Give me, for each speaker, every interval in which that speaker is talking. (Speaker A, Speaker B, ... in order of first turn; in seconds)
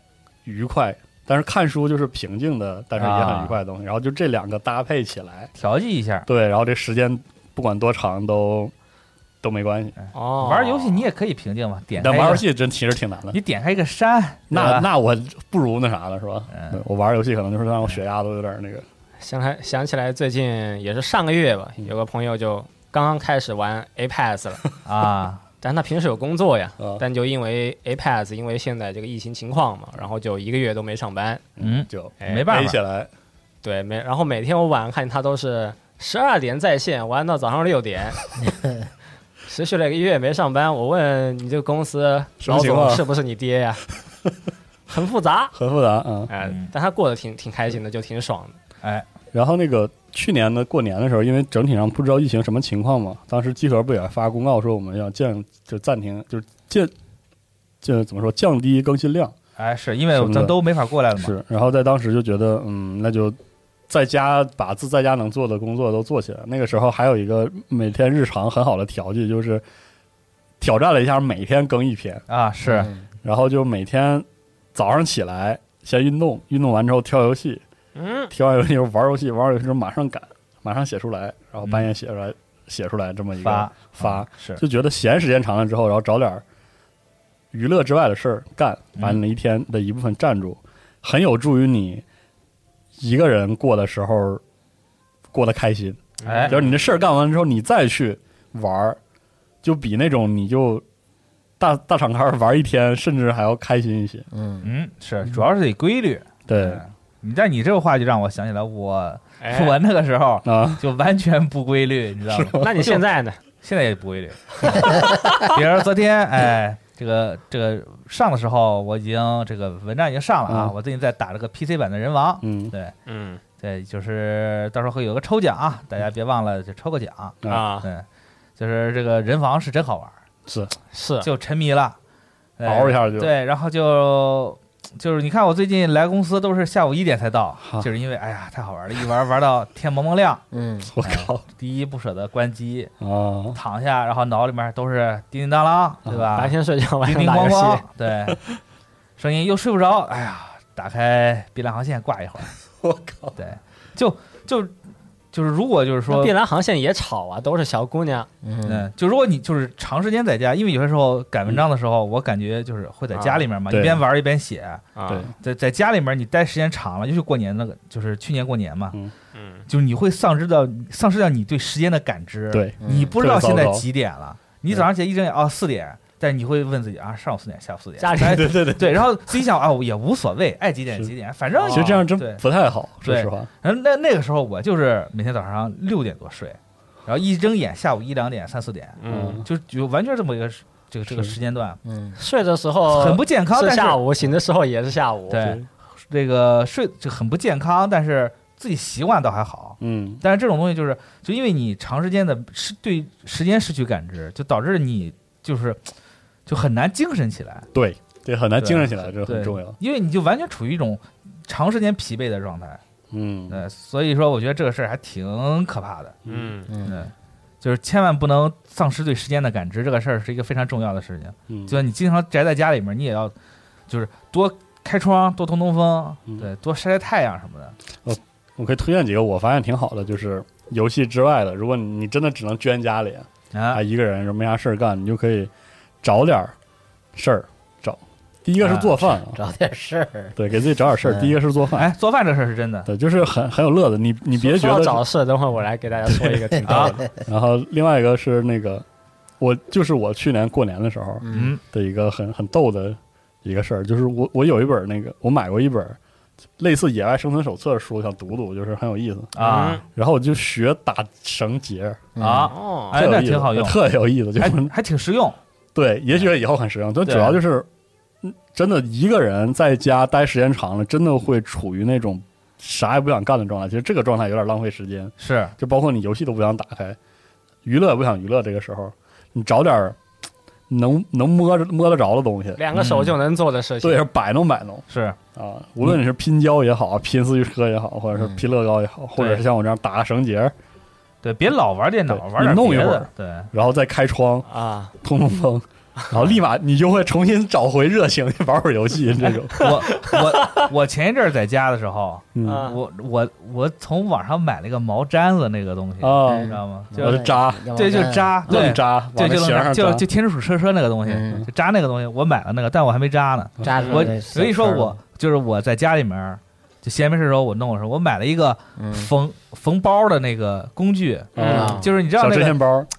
Speaker A: 0.5-5.5, 6.3-8.7, 9.4-9.9, 12.0-13.4, 14.5-18.9, 31.6-33.1, 42.4-43.0, 45.5-46.3, 49.3-56.9, 57.8-59.4, 60.1-60.6, 61.2-63.4, 63.9-69.6, 70.6-72.2, 73.2-77.6, 78.3-86.4, 87.5-92.0, 93.0-94.4, 95.3-99.0, 99.6-100.8, 101.6-104.3, 106.5-106.8, 110.5-110.8, 112.3-112.9, 120.5-120.7, 122.4-122.7, 130.5-130.8, 132.7-133.3, 137.6-137.9, 140.8-141.4, 143.0-143.6, 152.8-153.4, 163.7-164.0, 172.5-173.8, 178.2-179.3, 181.7-183.5, 189.1-189.5, 191.1-191.3, 199.8-200.2, 207.7-209.8, 213.1-213.6, 216.3-216.5, 221.5-221.8, 228.1-235.5, 236.0-236.5, 237.2-239.4, 240.4-241.9, 242.9-245.0, 247.3-248.8, 249.4-256.0, 256.6-259.3, 259.9-262.1, 262.9-264.7, 265.8-267.7, 268.2-277.0, 277.6-280.0, 280.7-282.6, 283.8-290.5, 292.1-294.5, 295.0-299.8, 302.4-302.7, 306.0-310.0, 321.4-322.9
Speaker B: 3.0-3.6, 5.6-6.3, 10.0-12.4, 13.3-14.9, 16.5-16.8, 24.9-25.4, 31.6-32.8, 46.4-46.7, 59.6-61.4, 72.3-72.9, 81.6-81.9, 83.4-84.6, 96.3-96.6, 104.6-113.0, 113.6-122.9, 123.6-128.1, 128.6-130.2, 131.2-132.0, 132.6-140.4, 141.0-142.9, 143.5-148.4, 149.2-152.5, 153.4-154.7, 155.3-156.3, 158.7-169.0, 169.7-182.4, 183.0-191.8, 192.9-194.0, 195.3-205.8, 206.5-207.7, 208.6-212.8, 213.5-216.2, 216.8-217.1, 217.6-223.3, 223.9-227.8, 233.5-233.8, 238.6-239.1, 241.7-242.9, 246.7-247.0, 251.3-251.6, 259.4-259.8, 262.2-263.8, 264.4-265.4, 267.1-267.4, 275.2-275.5, 282.7-283.2, 284.9-285.2, 289.2-289.4, 291.2-293.5, 299.2-322.6
Speaker C: 10.1-11.1, 19.2-24.6, 25.6-31.4, 32.2-32.5, 33.6-38.3, 39.5-43.8, 44.9-45.5, 46.3-48.6, 78.0-78.3, 96.2-96.9, 109.4-109.8, 112.6-113.4, 123.1-123.4, 127.5-127.9, 130.9-131.3, 146.3-147.8, 156.1-158.3, 163.1-163.4, 165.0-165.3, 169.3-169.7, 178.0-178.6, 181.6-181.9, 189.0-189.4, 192.2-195.6, 216.3-216.7, 244.3-247.0, 259.4-259.8, 262.5-263.0, 282.6-284.0, 294.5-294.9, 299.6-300.7, 302.4-302.8, 313.8-314.1, 321.4-321.8
Speaker D: 72.7-73.0, 104.3-104.7, 140.5-140.9, 158.4-158.9, 172.8-173.2, 191.8-192.2, 216.7-217.1, 239.2-240.4, 241.0-241.4, 246.7-247.2, 251.2-251.6, 262.2-262.5, 288.1-288.4, 306.3-308.7, 311.1-311.5, 313.6-315.0, 318.8-319.1, 321.5-321.9